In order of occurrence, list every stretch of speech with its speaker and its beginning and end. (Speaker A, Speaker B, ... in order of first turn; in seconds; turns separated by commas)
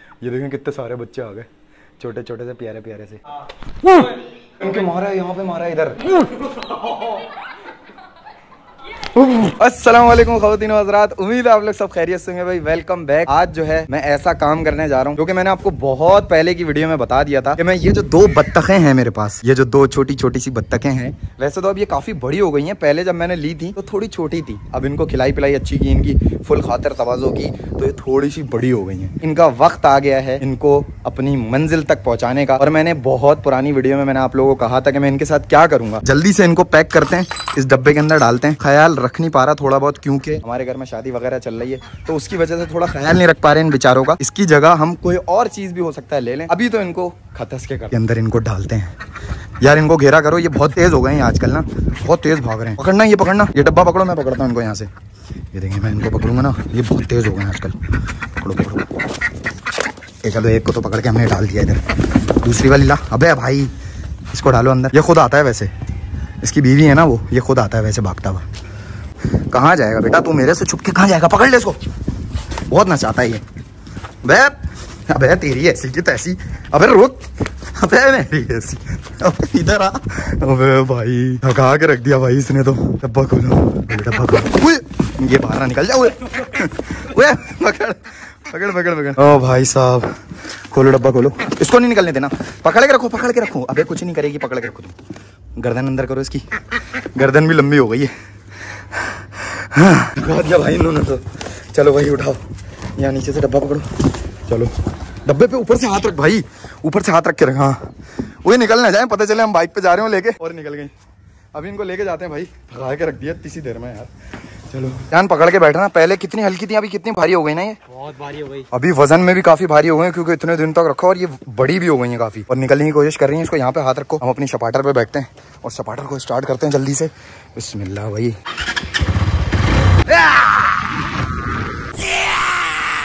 Speaker A: 0.2-1.5, Speaker A: 2.0-3.4, Speaker B: 3.5-5.0, Speaker A: 4.6-6.2, Speaker B: 6.0-7.3, Speaker A: 9.0-49.0, Speaker A: 49.6-54.9, Speaker A: 55.5-57.7, Speaker A: 58.4-58.9, Speaker A: 60.2-63.7, Speaker A: 64.3-65.7, Speaker A: 66.4-68.4, Speaker A: 69.5-71.8, Speaker A: 72.7-73.4, Speaker A: 74.2-74.5, Speaker A: 75.1-94.9, Speaker A: 95.6-98.1, Speaker A: 98.7-102.4, Speaker A: 103.0-104.7, Speaker A: 105.2-110.9, Speaker A: 111.5-117.8, Speaker B: 117.9-118.7, Speaker A: 118.7-128.4, Speaker A: 130.1-130.7, Speaker A: 132.2-132.7